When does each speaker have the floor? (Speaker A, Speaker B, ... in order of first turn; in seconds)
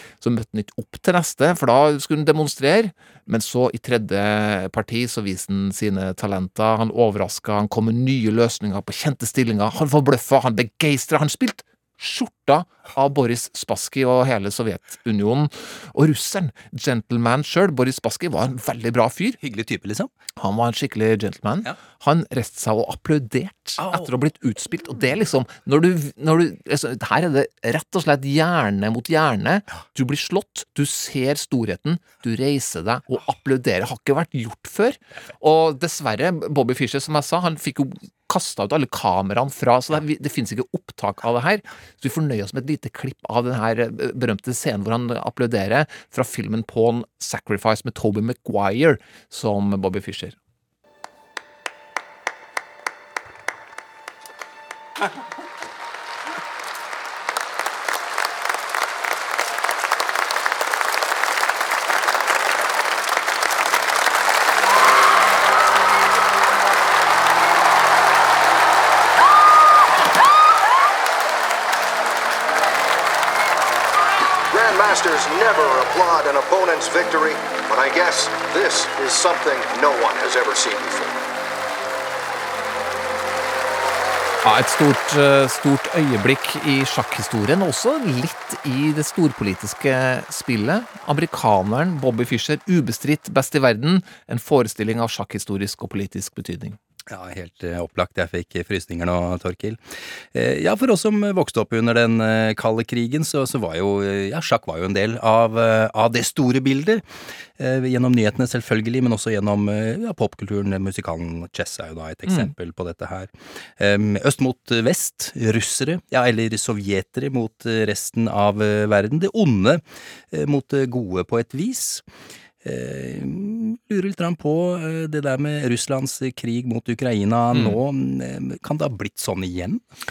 Speaker A: 0.2-19.4, 20.4-50.4, 84.4-96.8, 127.5-127.8
Speaker B: 19.4-20.1, 23.8-24.1, 97.1-99.8, 100.3-107.0, 107.6-122.0, 122.6-129.8
Speaker C: 74.5-81.2